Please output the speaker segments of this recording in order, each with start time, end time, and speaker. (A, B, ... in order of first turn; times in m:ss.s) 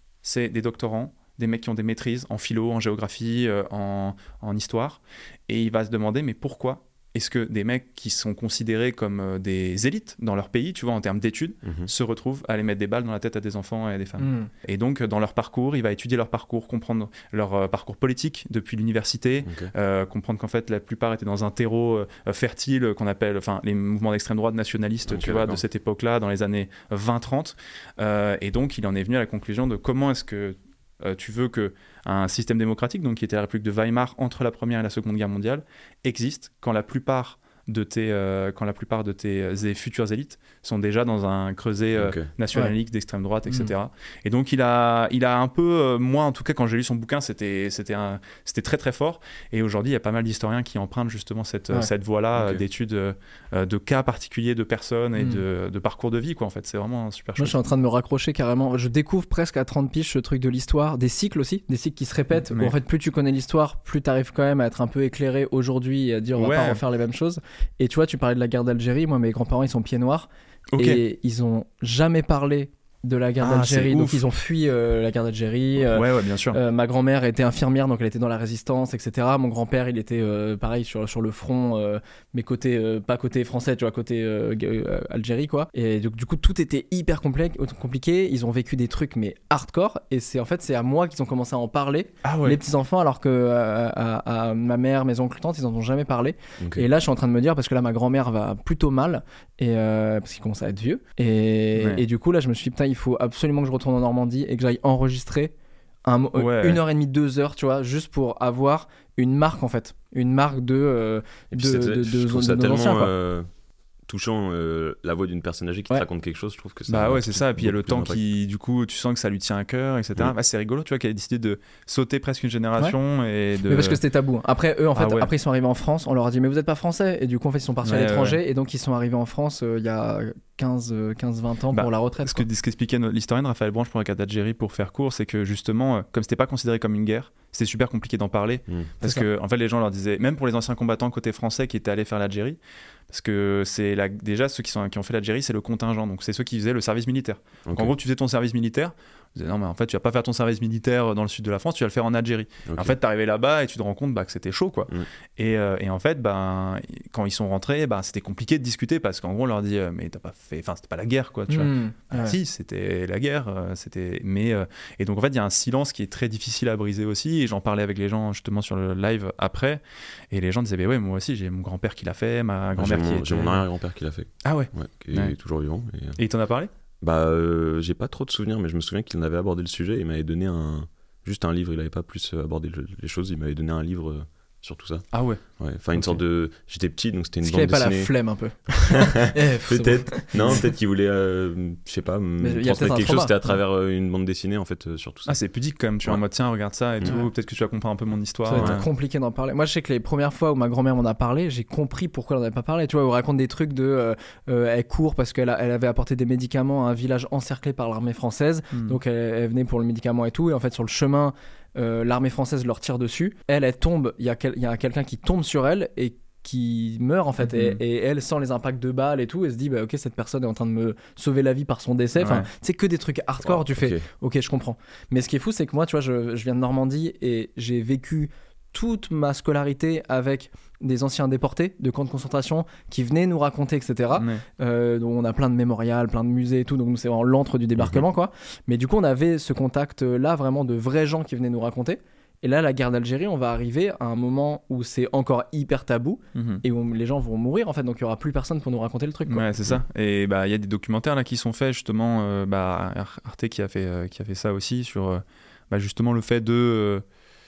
0:00.2-0:57.6 A
0:11.6-0:11.9 B
0:14.2-0:14.5 C
0:19.4-0:19.7 B
0:25.1-0:25.6 B
0:42.0-0:42.3 B
0:52.4-0:52.6 B
0:57.4-1:45.5 C
1:02.5-1:02.8 A
1:06.4-1:06.8 A
1:10.7-1:11.0 A
1:13.4-1:14.2 A
1:15.8-1:16.6 A
1:32.2-1:32.6 A
1:36.6-1:36.9 B
1:41.8-1:42.0 A
1:46.1-1:53.1 C
1:46.4-1:46.8 A
1:51.5-1:53.5 B
1:54.1-1:58.2 B
1:56.9-2:04.0 A
2:03.7-2:12.4 C
2:05.0-2:05.3 A
2:07.8-2:08.4 A
2:11.7-2:22.6 A
2:23.1-2:49.8 A
2:27.7-2:27.9 B
2:32.7-2:33.0 B
2:41.5-2:42.4 C
2:50.3-2:53.6 A
2:52.8-2:56.2 B
2:54.4-2:55.4 A
2:56.2-2:56.7 A
2:57.0-3:05.0 B
3:05.1-3:05.4 A
3:05.6-3:08.1 B
3:07.4-3:10.6 C
3:08.7-3:15.4 B
3:12.4-3:13.5 C
3:15.3-3:18.8 A
3:18.5-4:09.4 C
3:18.6-3:18.8 B
3:28.7-3:29.0 A
3:37.4-3:37.8 A
3:42.2-3:42.5 A
3:43.4-3:44.0 B
3:54.2-3:54.4 A
4:06.4-4:06.6 A
4:09.3-4:17.0 A